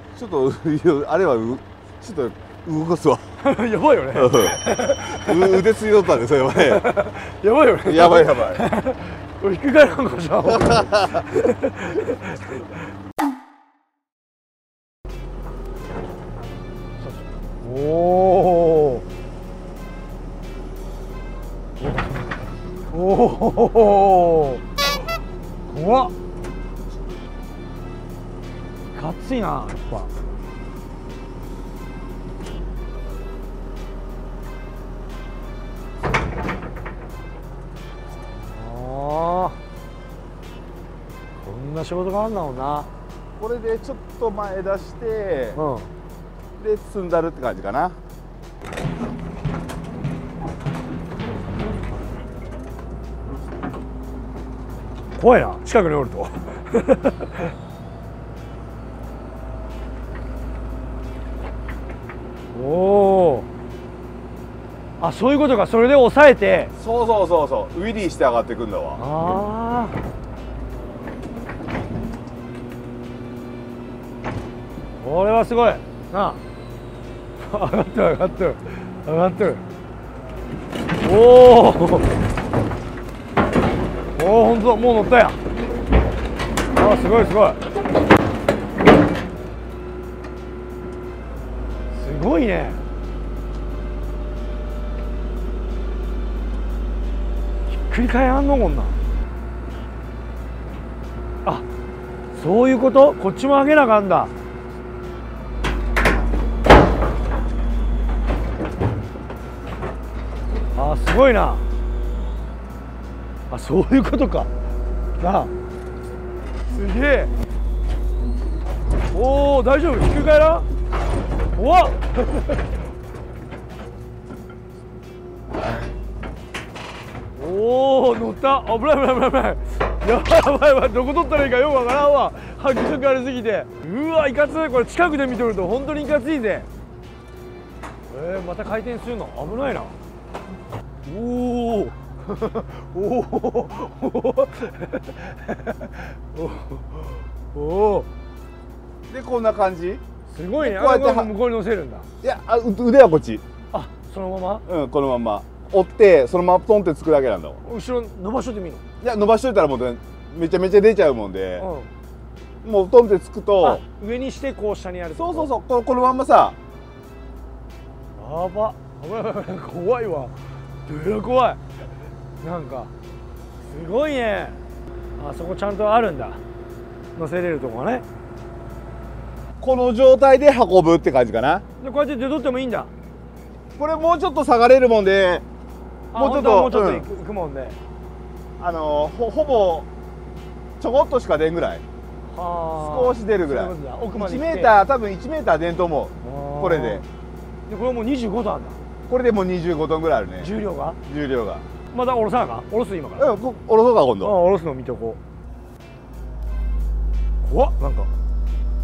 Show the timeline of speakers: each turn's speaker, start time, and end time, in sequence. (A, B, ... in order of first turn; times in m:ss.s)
0:00.2-0:03.3 A
0:03.4-0:05.6 B
0:04.1-0:06.9 A
0:06.6-0:12.8 B
0:07.8-0:08.6 A
0:10.5-0:11.2 A
0:17.0-0:19.0 B
0:21.8-0:24.6 B
0:25.7-0:26.1 B
0:28.9-0:30.1 B
0:38.2-0:39.6 B
0:41.4-0:42.9 B
0:43.4-0:45.6 A
0:45.6-0:45.9 B
0:46.6-0:48.0 A
0:55.2-0:57.4 B
1:02.5-1:03.5 B
1:05.0-1:06.7 B
1:06.8-1:09.0 A
1:09.0-1:10.0 B
1:15.0-1:16.4 B
1:17.4-1:19.6 B
1:20.9-1:22.1 B
1:24.2-1:25.4 B
1:26.7-1:27.6 B
1:31.9-1:32.8 B
1:37.7-1:39.0 B
1:42.3-1:44.3 B
1:50.8-1:51.7 B
1:53.5-1:54.5 B
1:55.2-1:55.5 B
1:56.7-1:57.3 B
1:59.1-2:00.7 B
2:01.5-2:02.6 B
2:07.3-2:16.7 B
2:18.1-2:20.0 B
2:21.1-2:28.1 B
2:29.1-2:30.0 A
2:30.3-2:32.1 B
2:30.6-2:31.3 A
2:32.2-2:33.4 A
2:33.7-2:34.6 B
2:34.7-2:37.6 A
2:37.6-2:38.8 B
2:39.0-2:41.7 A
2:41.6-2:41.9 B
2:42.6-2:43.8 A
2:43.6-2:45.5 B
2:45.1-2:46.6 A
2:48.1-2:51.6 B
2:52.4-2:52.9 B
2:53.6-2:54.6 B
2:55.2-2:56.4 B
2:57.2-2:58.0 B
2:59.6-3:01.6 A
3:01.8-3:02.9 B
3:03.8-3:05.4 A
3:06.1-3:07.8 B
3:06.1-3:07.1 A
3:08.6-3:09.9 A
3:10.8-3:11.8 A
3:12.3-3:14.7 B
3:12.8-3:17.0 A
3:16.2-3:17.0 B
3:17.7-3:18.8 B
3:19.1-3:21.7 A
3:20.4-3:21.0 B
3:21.9-3:23.3 B
3:23.2-3:24.4 A
3:24.2-3:25.2 B
3:27.4-3:28.1 B